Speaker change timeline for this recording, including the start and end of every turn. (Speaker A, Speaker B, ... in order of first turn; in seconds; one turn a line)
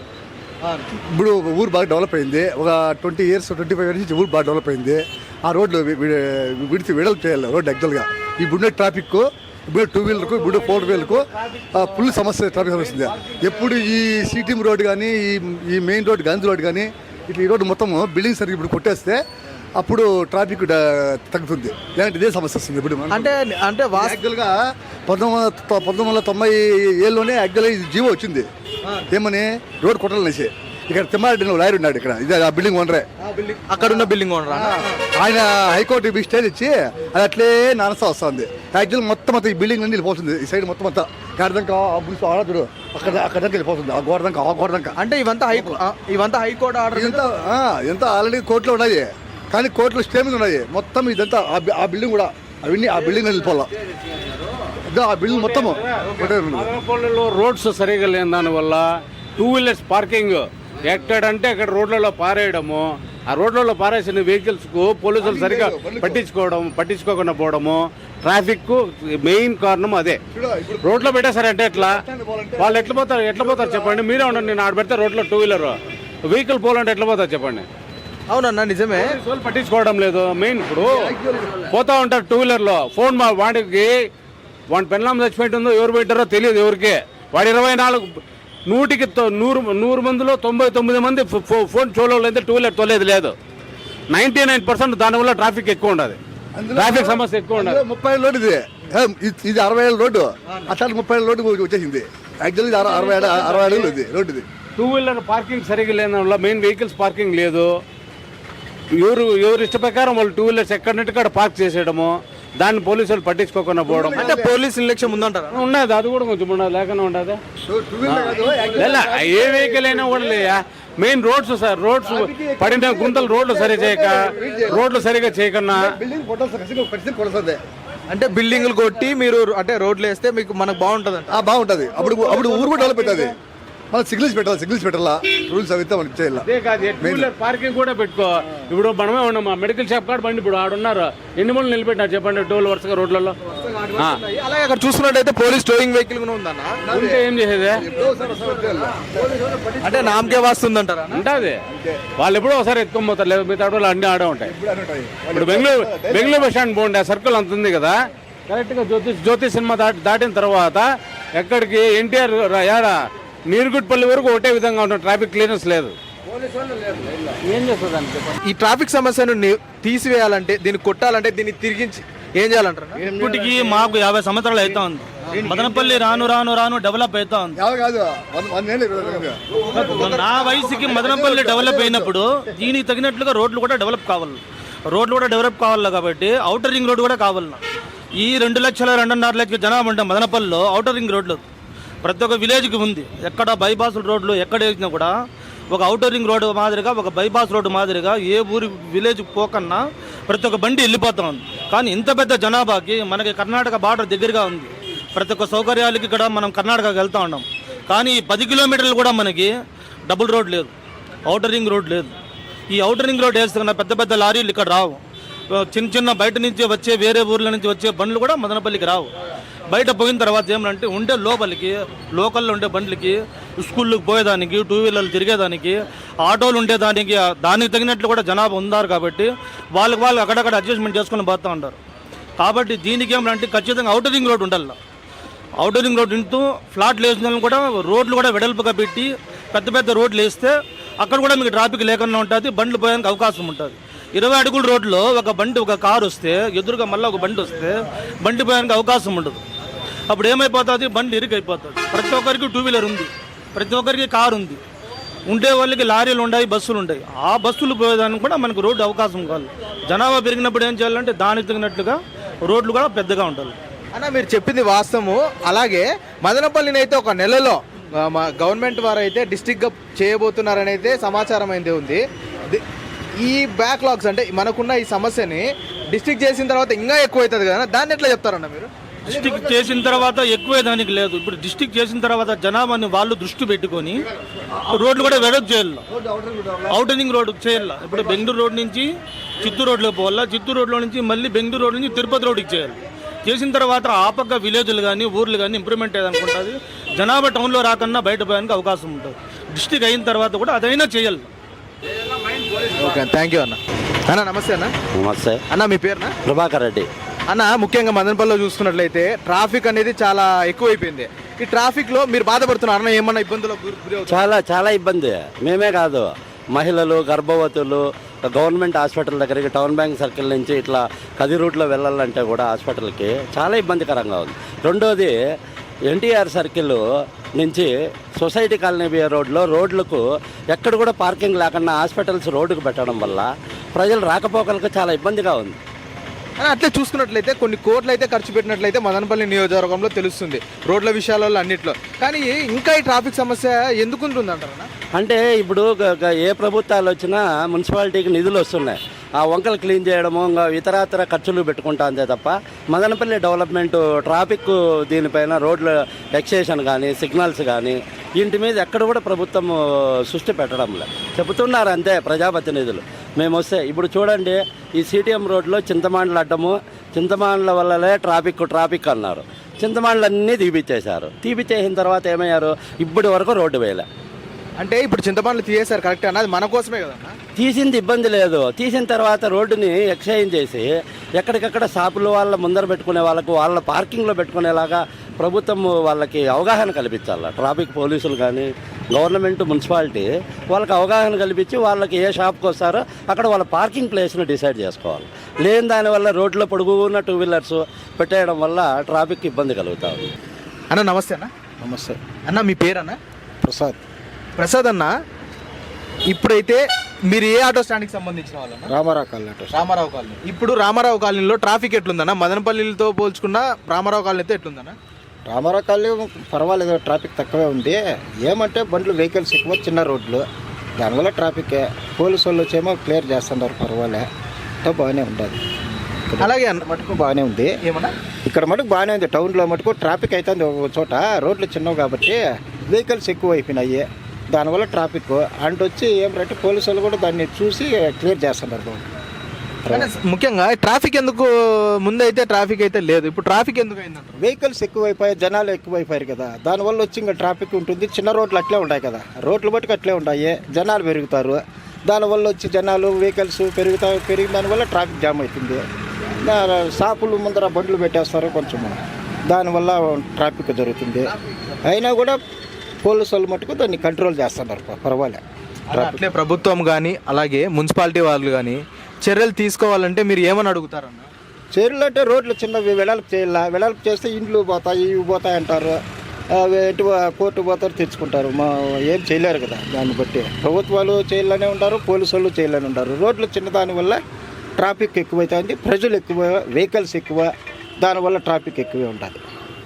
Speaker A: 1.1-19.2
Speaker A: 19.8-23.3
Speaker B: 23.1-24.2
Speaker A: 24.0-28.5
Speaker A: 29.1-33.1
Speaker B: 33.2-35.0
Speaker A: 34.5-45.0
Speaker B: 45.0-47.3
Speaker A: 47.0-53.7
Speaker A: 54.9-56.7
Speaker C: 55.3-70.2
Speaker A: 65.2-66.2
Speaker A: 70.3-70.9
Speaker C: 70.8-72.0
Speaker A: 72.0-74.0
Speaker C: 72.6-77.7
Speaker B: 78.3-79.2
Speaker C: 79.0-84.1
Speaker A: 81.0-81.4
Speaker C: 84.7-93.3
Speaker C: 94.1-96.2
Speaker A: 96.5-104.5
Speaker C: 96.7-97.8
Speaker C: 104.8-107.8
Speaker C: 109.0-114.3
Speaker A: 113.9-114.4
Speaker B: 114.2-115.6
Speaker C: 115.5-117.4
Speaker A: 117.7-120.4
Speaker C: 118.0-126.0
Speaker A: 122.1-124.8
Speaker A: 125.7-127.6
Speaker B: 128.1-131.4
Speaker A: 131.3-133.3
Speaker A: 133.9-136.4
Speaker C: 136.5-143.4
Speaker B: 143.6-146.8
Speaker A: 146.9-147.2
Speaker C: 146.9-147.8
Speaker A: 147.8-149.6
Speaker B: 149.8-151.2
Speaker C: 151.1-151.6
Speaker C: 152.2-154.5
Speaker A: 154.4-156.3
Speaker C: 155.3-168.3
Speaker B: 168.4-173.0
Speaker D: 173.1-177.6
Speaker A: 177.6-179.4
Speaker B: 179.7-180.2
Speaker D: 179.7-187.6
Speaker A: 181.0-182.1
Speaker D: 188.2-191.4
Speaker D: 192.0-195.1
Speaker D: 195.7-209.5
Speaker D: 210.1-210.7
Speaker D: 211.3-212.1
Speaker D: 212.7-215.0
Speaker D: 215.5-219.1
Speaker D: 219.7-231.8
Speaker D: 232.4-234.8
Speaker D: 235.6-249.4
Speaker D: 250.1-254.6
Speaker D: 255.3-263.5
Speaker B: 263.9-272.6
Speaker B: 273.2-278.7
Speaker D: 279.1-284.0
Speaker D: 284.7-285.8
Speaker A: 286.2-286.6
Speaker D: 286.7-288.9
Speaker D: 289.4-301.3
Speaker B: 302.7-304.7
Speaker E: 305.0-305.4
Speaker B: 305.5-306.1
Speaker E: 306.2-306.9
Speaker B: 307.3-314.4
Speaker E: 314.1-325.1
Speaker E: 325.9-326.8
Speaker E: 327.4-330.0
Speaker E: 330.5-335.6
Speaker B: 336.4-344.7
Speaker E: 344.9-359.6
Speaker E: 360.1-373.9
Speaker B: 374.6-377.1
Speaker E: 377.4-400.1
Speaker B: 400.7-401.3
Speaker F: 401.6-402.0
Speaker B: 402.2-403.0
Speaker F: 403.4-403.8
Speaker B: 404.4-404.9
Speaker B: 406.1-408.7
Speaker F: 408.8-409.5
Speaker B: 409.5-414.8
Speaker F: 415.3-420.2
Speaker F: 420.8-424.0
Speaker F: 424.6-425.4
Speaker F: 426.1-427.5
Speaker B: 426.2-426.6
Speaker B: 427.6-427.9
Speaker F: 428.3-438.8
Speaker B: 439.7-444.2
Speaker F: 444.3-455.6
Speaker F: 456.2-461.1
Speaker F: 461.7-462.2
Speaker F: 462.8-465.2
Speaker B: 465.7-471.1
Speaker F: 471.5-475.8
Speaker F: 476.4-484.0
Speaker F: 484.6-487.3
Speaker F: 487.8-489.2